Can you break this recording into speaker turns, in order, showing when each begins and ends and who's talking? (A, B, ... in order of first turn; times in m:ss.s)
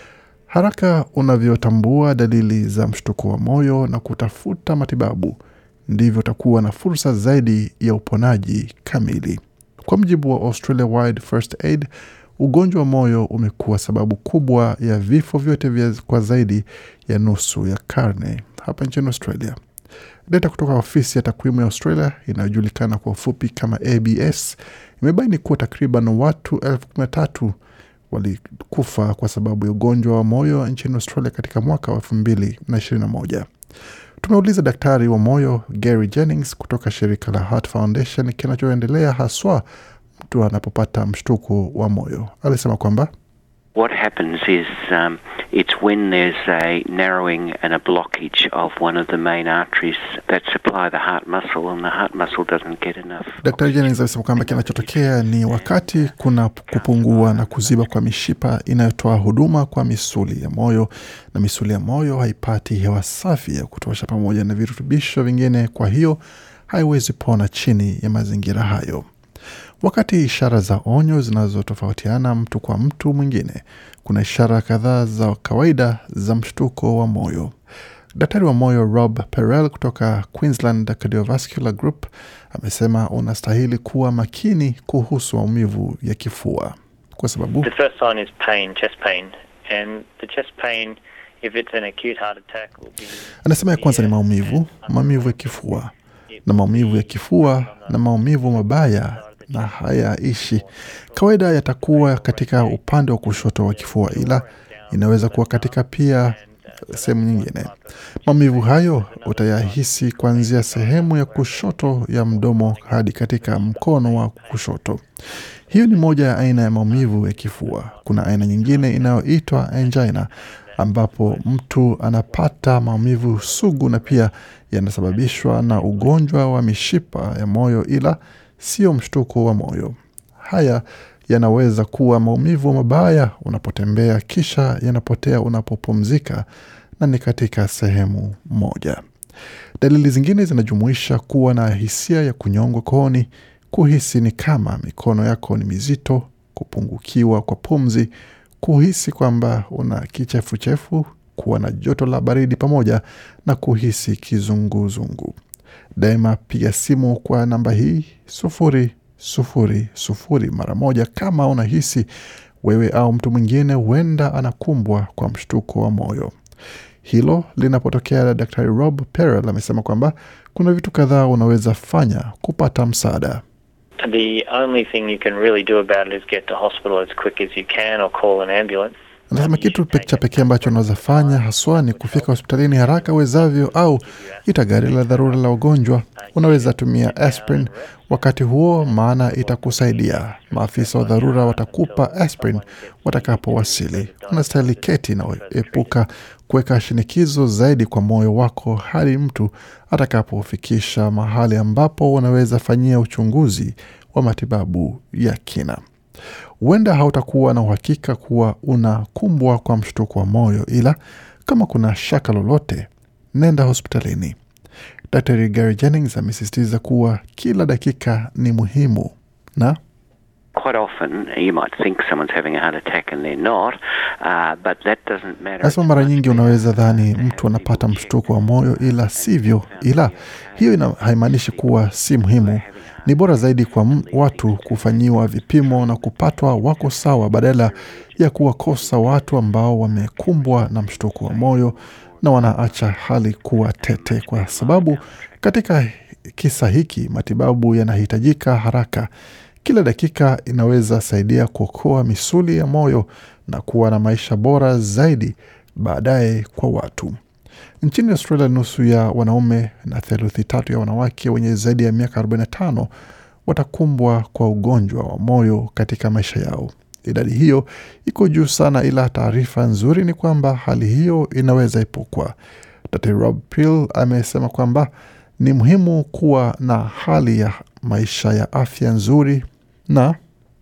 0:00.5-0:19.6 A
0:20.3-0:27.6 A
0:28.1-0:33.5 A
0:34.2-0:39.6 A
0:40.3-0:43.1 A
0:43.8-0:56.2 B
0:53.4-1:09.1 A
0:56.7-0:58.0 B
1:09.8-1:17.5 A
1:18.2-1:27.7 A
1:27.6-1:55.0 C
1:33.4-1:35.9 A
1:36.5-1:46.4 A
1:46.9-1:47.7 A
1:48.2-1:55.0 A
1:55.7-2:04.3 C
1:55.7-2:16.4 A
2:05.0-2:06.6 C
2:17.0-2:19.0 A
2:19.8-2:35.4 A
2:36.0-2:42.1 A
2:42.6-2:46.3 A
2:47.0-2:53.4 A
2:54.0-3:16.0 C
2:59.3-3:25.8 A
3:26.6-3:34.4 A
3:35.1-3:39.8 A
3:40.6-4:05.6 B
3:45.6-4:09.1 A
4:09.6-4:17.2 A
4:17.8-4:22.9 A
4:23.5-4:32.4 A
4:32.9-4:40.2 A